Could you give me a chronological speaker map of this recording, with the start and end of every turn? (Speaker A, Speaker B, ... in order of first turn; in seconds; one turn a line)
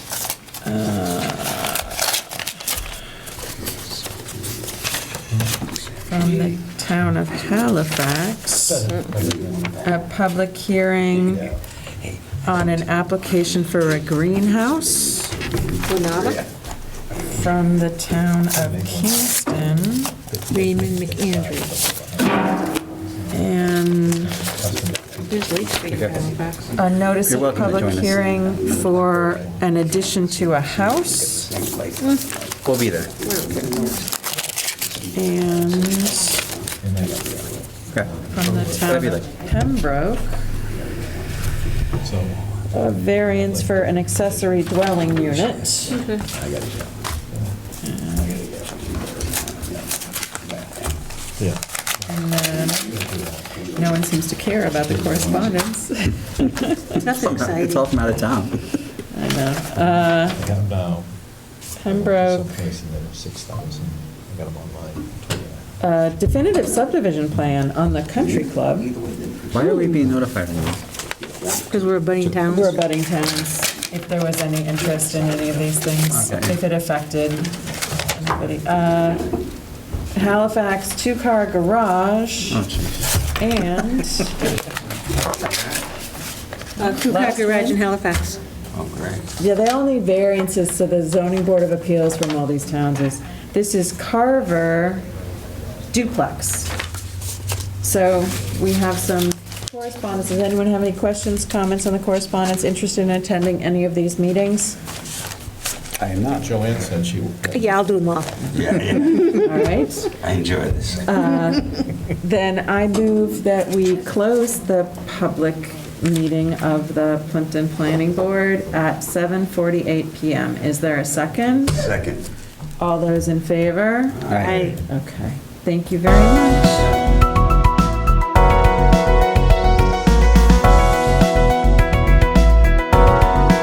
Speaker A: 0.6-1.9
Speaker A: 6.0-8.9
Speaker B: 8.6-9.7
Speaker A: 9.8-11.5
Speaker A: 12.4-15.4
Speaker C: 15.9-16.4
Speaker A: 17.1-20.1
Speaker B: 18.5-19.4
Speaker B: 20.1-26.0
Speaker C: 20.5-21.8
Speaker A: 23.3-24.4
Speaker C: 25.3-26.7
Speaker D: 25.8-28.5
Speaker A: 26.7-31.5
Speaker B: 28.5-30.8
Speaker C: 32.0-32.2
Speaker D: 32.6-33.2
Speaker C: 33.2-34.0
Speaker A: 35.1-36.4
Speaker B: 36.8-37.3
Speaker B: 37.9-39.0
Speaker A: 38.3-40.5
Speaker D: 38.6-39.3
Speaker B: 42.0-46.3
Speaker A: 42.7-46.1
Speaker C: 45.9-46.2
Speaker D: 46.3-46.8
Speaker B: 47.3-47.6
Speaker A: 47.8-48.5
Speaker D: 48.8-49.8
Speaker D: 50.4-50.9
Speaker B: 51.4-53.5
Speaker A: 52.1-57.0
Speaker C: 56.9-58.0
Speaker D: 57.0-58.6
Speaker A: 59.1-60.4
Speaker B: 59.8-61.1
Speaker A: 61.8-62.6
Speaker B: 61.8-65.6
Speaker A: 65.8-69.0
Speaker D: 69.2-70.8
Speaker C: 69.6-69.9
Speaker C: 71.4-72.8
Speaker A: 72.4-79.3
Speaker D: 76.1-76.5
Speaker A: 80.1-82.6
Speaker D: 82.5-83.2
Speaker A: 83.4-84.4
Speaker C: 86.8-88.4
Speaker A: 86.8-87.8
Speaker D: 88.7-89.3
Speaker A: 89.4-95.0
Speaker A: 95.9-96.7
Speaker A: 97.8-104.8
Speaker D: 106.0-106.5
Speaker B: 106.4-107.8
Speaker C: 107.5-108.5
Speaker D: 108.5-109.5
Speaker A: 108.9-110.2
Speaker D: 110.1-111.1
Speaker A: 110.9-122.0
Speaker D: 121.8-122.2
Speaker A: 122.8-126.9
Speaker D: 124.2-124.7
Speaker C: 124.3-124.8